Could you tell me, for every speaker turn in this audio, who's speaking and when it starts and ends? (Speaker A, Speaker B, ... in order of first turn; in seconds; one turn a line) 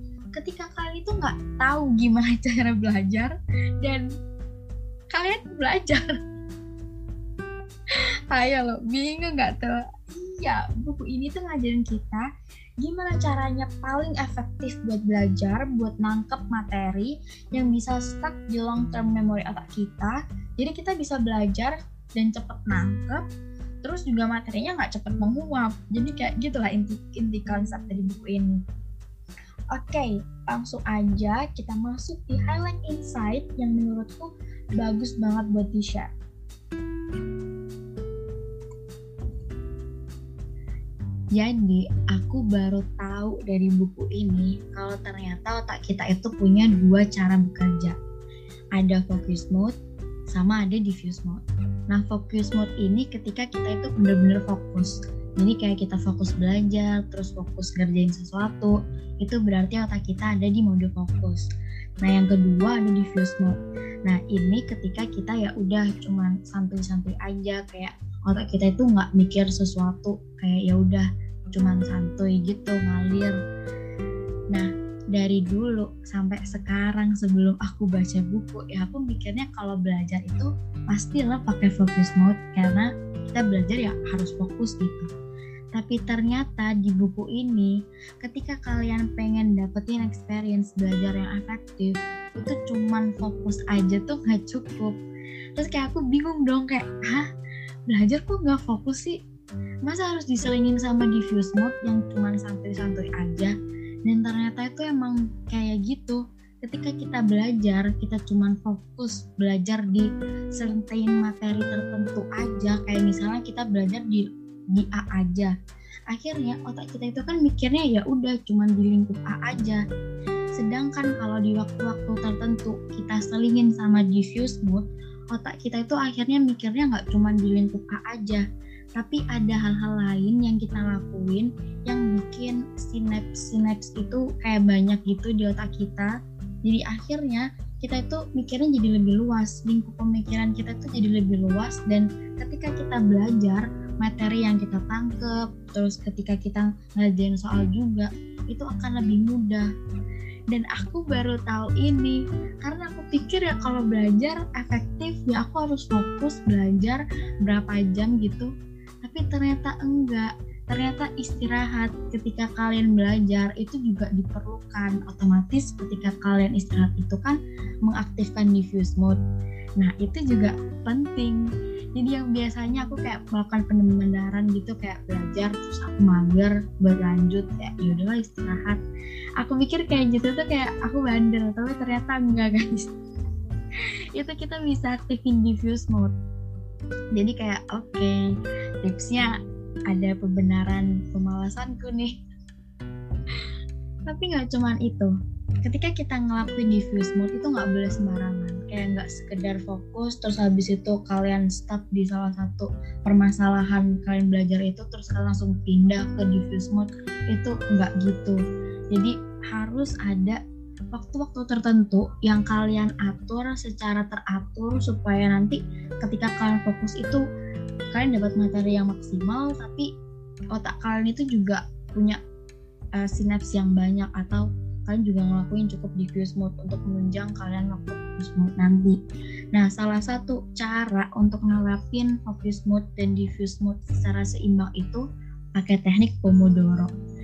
Speaker A: 0.3-4.0
Speaker A: 5.1-6.1
Speaker A: 8.3-12.2
Speaker A: 12.8-23.2
Speaker A: 23.8-28.6
Speaker A: 29.7-36.1
Speaker A: 41.3-47.9
Speaker A: 48.7-49.7
Speaker A: 50.3-61.4
Speaker A: 62.0-73.3
Speaker A: 74.5-85.1
Speaker A: 85.7-87.7
Speaker A: 88.2-95.0
Speaker A: 95.5-97.2
Speaker A: 97.9-99.2
Speaker A: 99.8-103.5
Speaker A: 104.0-115.5
Speaker A: 116.1-119.8
Speaker A: 120.5-128.4
Speaker A: 129.0-136.1
Speaker A: 136.6-149.7
Speaker A: 150.5-158.5
Speaker A: 159.0-169.2
Speaker A: 169.8-171.4
Speaker A: 172.0-178.8
Speaker A: 179.4-182.9
Speaker A: 184.2-186.1
Speaker A: 187.1-188.2
Speaker A: 188.8-189.3
Speaker A: 189.9-192.1
Speaker A: 194.1-195.1
Speaker A: 195.6-208.4
Speaker A: 208.9-210.4
Speaker A: 210.9-217.2
Speaker A: 217.9-219.8
Speaker A: 220.5-222.2
Speaker A: 223.0-229.0
Speaker A: 229.5-235.0
Speaker A: 235.6-236.9